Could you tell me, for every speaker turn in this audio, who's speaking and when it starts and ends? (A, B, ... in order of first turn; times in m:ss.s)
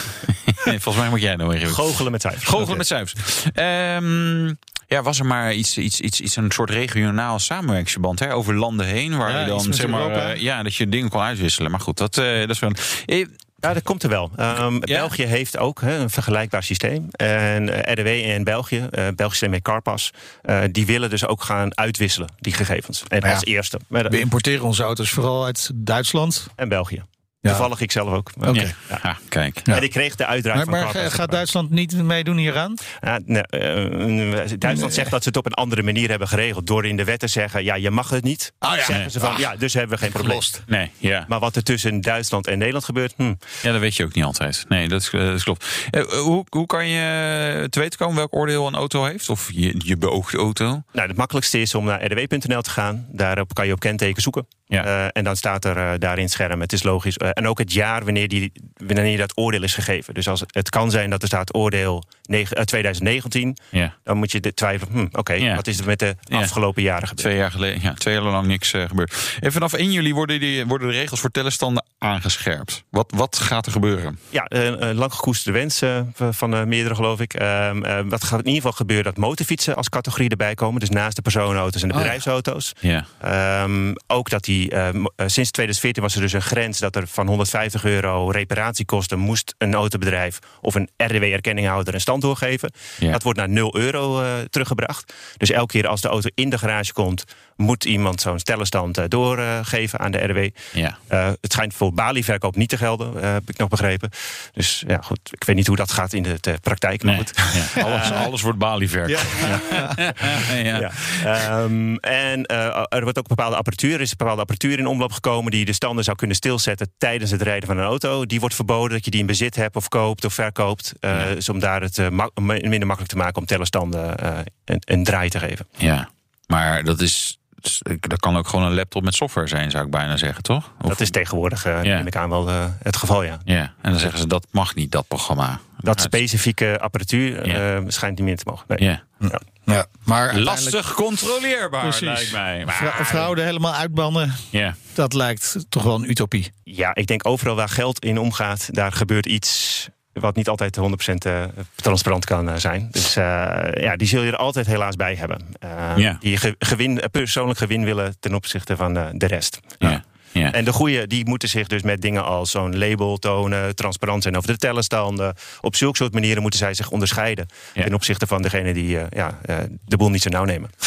0:00.5-0:13.3 A
0:01.7-0:02.8 B
0:09.2-0:10.4 C
0:13.6-0:24.1 B
0:24.1-0:26.5 C
0:26.6-0:29.0 B
0:28.4-0:28.8 C
0:28.5-0:29.7 A
0:29.7-0:31.4 B
0:30.5-0:32.8 C
0:33.0-0:40.7 B
0:34.7-0:35.1 C
0:38.6-0:39.5 C
0:40.0-0:40.6 C
0:40.7-0:41.3 A
0:41.3-0:43.4 B
0:43.6-0:50.8 A
0:51.0-1:07.3 B
1:07.2-1:14.2 A
1:14.3-1:40.6 B
1:22.8-1:23.1 A
1:41.1-1:48.3 B
1:47.0-1:51.3 A
1:47.8-1:48.3 C
1:49.0-1:50.4 C
1:49.2-1:49.6 B
1:50.7-2:05.7 B
2:05.8-2:11.1 A
2:10.9-2:13.4 B
2:13.5-2:16.2 A
2:15.9-2:19.4 B
2:19.2-2:20.8 C
2:20.3-2:23.3 A
2:21.8-2:26.5 C
2:26.7-2:50.7 B
2:39.8-2:40.6 A